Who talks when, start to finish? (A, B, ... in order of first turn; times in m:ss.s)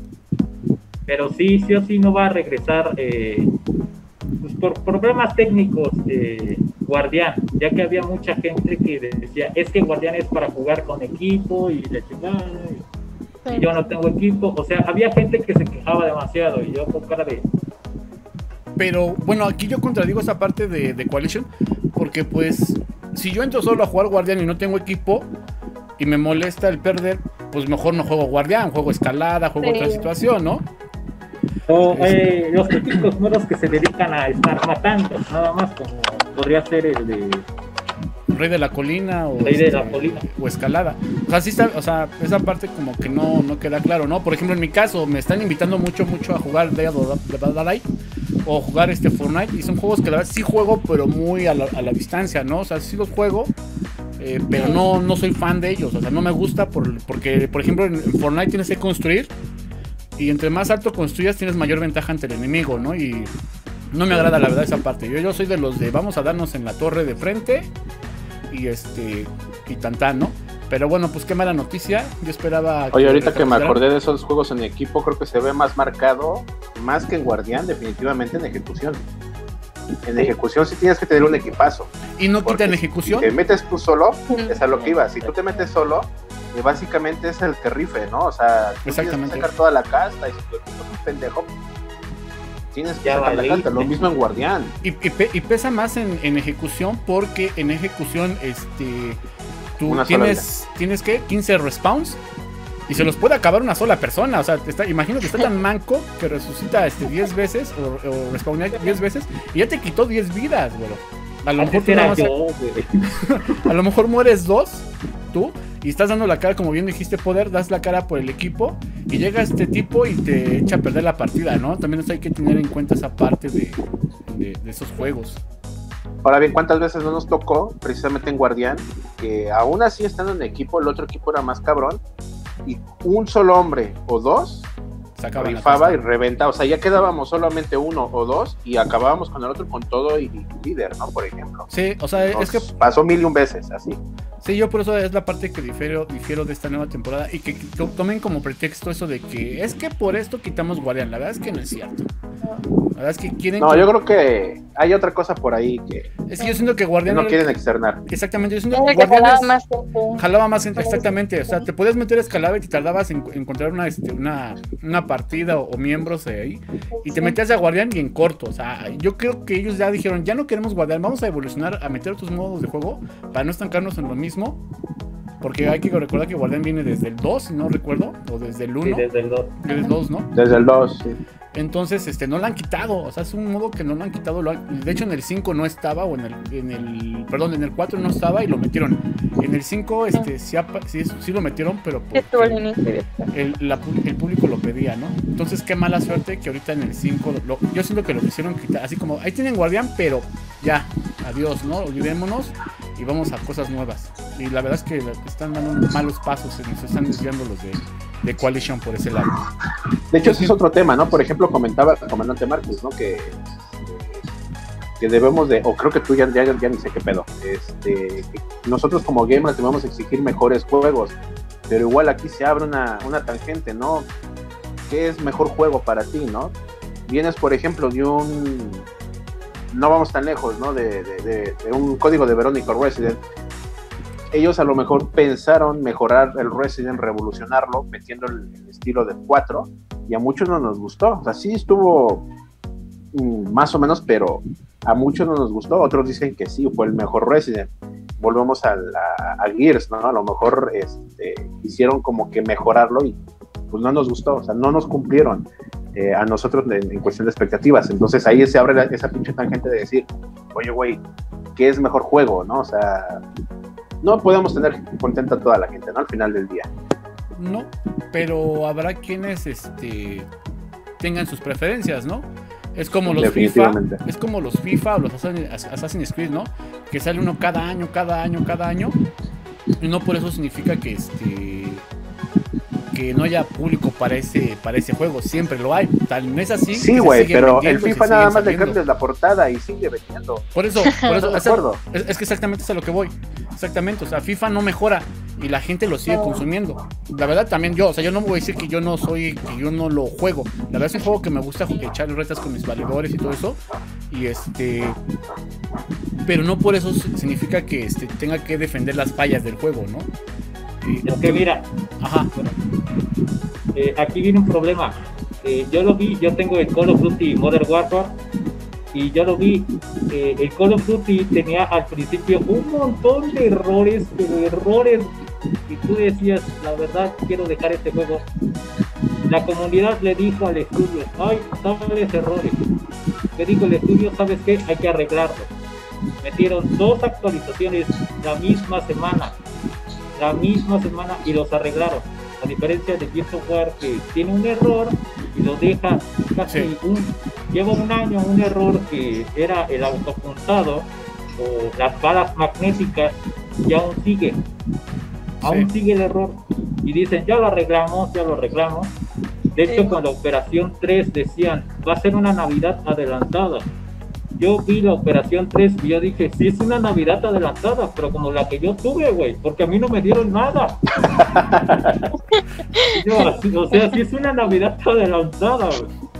0:01.1-0:03.5 A
0:04.4-0:12.8 A
0:13.5-0:13.7 B
0:13.5-0:17.5 A
0:18.8-0:25.3 C
0:26.0-0:30.7 C
0:29.6-0:30.1 B
0:31.7-0:37.5 A
0:31.9-0:32.2 C
0:38.3-0:47.8 C
0:39.4-0:40.3 A
0:48.4-0:53.5 C
0:54.2-0:59.3 C
0:54.5-0:54.8 B
1:00.2-1:03.3 C
1:03.9-1:07.7 C
1:08.5-1:13.8 C
1:12.9-1:19.0 D
1:20.0-1:21.9 D
1:22.2-1:23.3 C
1:22.5-1:31.5 D
1:24.3-1:24.6 B
1:24.8-1:25.4 A
1:28.9-1:29.5 C
1:32.7-1:34.7 D
1:33.0-1:34.0 A
1:34.8-1:39.2 C
1:39.8-1:42.2 C
1:39.8-1:40.4 D
1:42.9-1:52.3 C
1:51.6-1:53.1 A
1:53.2-2:05.4 C
2:06.2-2:12.0 D
2:12.6-2:14.7 D
2:15.2-2:16.0 C
2:15.4-2:21.7 D
2:21.7-2:22.7 C
2:22.2-2:24.0 D
2:24.4-2:32.1 C
2:32.9-2:33.9 C
2:33.6-2:36.1 D
2:36.3-2:37.5 C
2:37.1-2:38.0 D
2:38.1-2:39.6 C
2:38.7-2:40.2 B
2:40.2-2:54.6 C
2:40.8-2:41.1 B
2:47.0-2:47.4 B
2:55.4-2:59.1 C
2:58.8-2:59.6 A
2:59.6-3:00.3 C
2:59.7-3:00.0 B
3:00.3-3:01.2 D
3:01.5-3:12.6 C
3:12.1-3:13.3 B
3:13.3-3:29.4 C
3:30.1-3:34.2 D
3:30.2-3:30.6 C
3:35.0-3:41.2 D
3:41.7-3:44.1 D
3:44.9-3:46.5 D
3:47.1-3:48.9 D
3:49.7-3:53.2 D
3:54.3-4:02.3 D
4:03.1-4:13.2 D
4:13.7-4:21.0 D
4:21.6-4:23.2 D
4:24.0-4:26.7 D
4:27.3-4:30.3 C
4:31.0-4:39.0 C
4:33.1-4:34.0 D
4:39.8-4:41.9 C
4:42.9-4:48.8 C
4:46.7-4:50.5 D
4:50.6-5:05.0 C
4:51.0-4:51.8 D
4:56.1-4:56.4 B
5:06.2-5:10.1 C
5:10.8-5:11.4 C
5:11.1-5:11.7 A
5:12.0-5:12.3 C
5:12.3-5:12.6 A
5:13.8-5:18.2 A
5:18.9-5:25.1 A
5:25.7-5:28.3 A
5:29.2-5:32.6 A
5:33.4-5:35.5 A
5:36.2-5:39.4 A
5:40.2-5:54.4 A
5:55.4-5:59.0 A
5:55.4-5:55.7 C
5:59.6-6:03.7 A
5:59.7-6:00.0 B
6:04.4-6:11.2 A
6:11.2-6:12.1 D
6:12.8-6:15.9 A